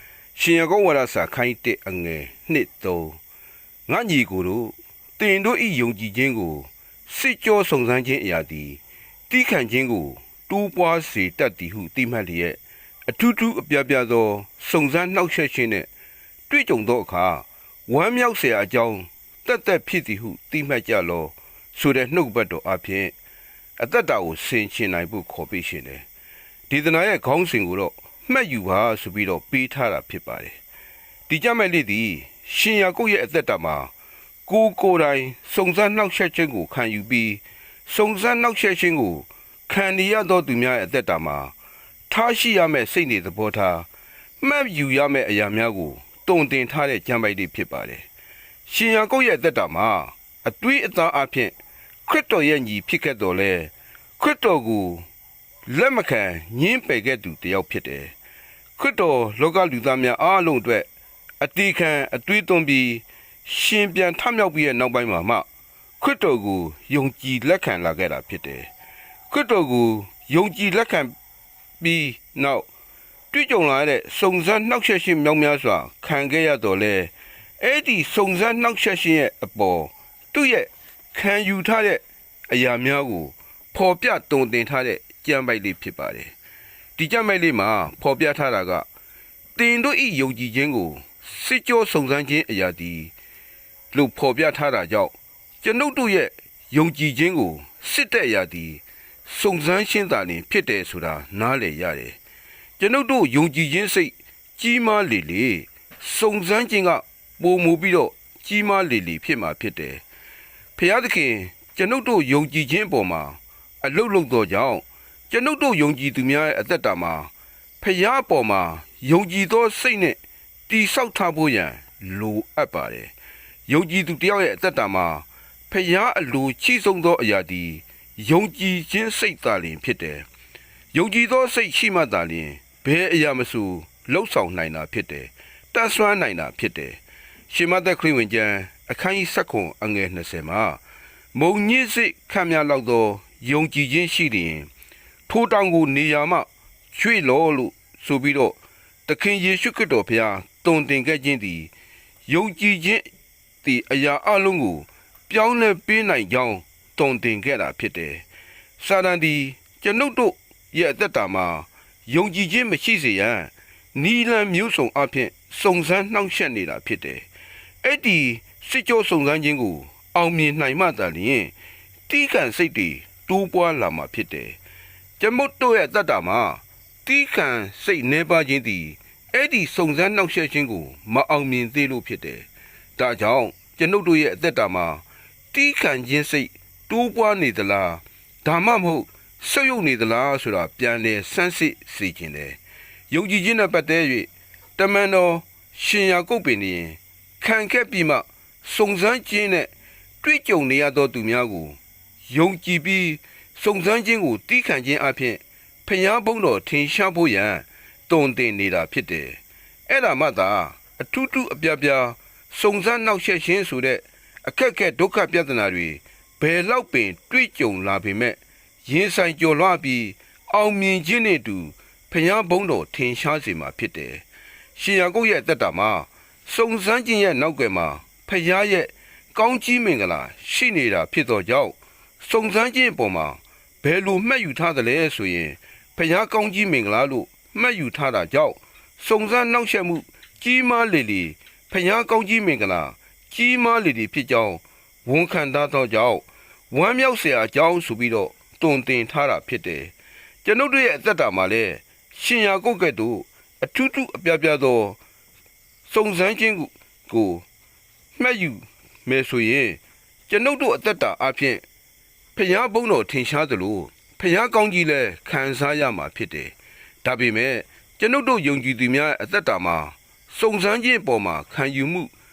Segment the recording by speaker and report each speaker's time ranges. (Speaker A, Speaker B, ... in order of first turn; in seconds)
Speaker A: 0.3-3.2, 3.9-15.9, 16.5-23.1, 23.8-26.1, 26.7-30.6, 31.3-33.9, 34.4-41.5, 42.1-43.9, 44.4-48.0, 48.6-51.5, 52.0-55.0, 55.6-58.1, 58.8-60.9, 61.4-65.5, 66.0-68.7, 69.3-71.1, 71.8-72.7, 73.3-86.3, 87.0-88.9, 89.5-93.1, 93.9-102.2, 102.8-110.0, 110.8-123.1, 123.7-130.3, 130.9-140.8, 141.3-144.7, 145.3-151.7, 152.2-153.1, 153.6-158.2, 158.8-167.3, 167.8-171.5, 172.1-174.6, 175.2-192.6, 193.1-199.7, 200.2-224.2, 224.7-255.0, 255.9-257.4, 258.1-261.6, 262.3-272.1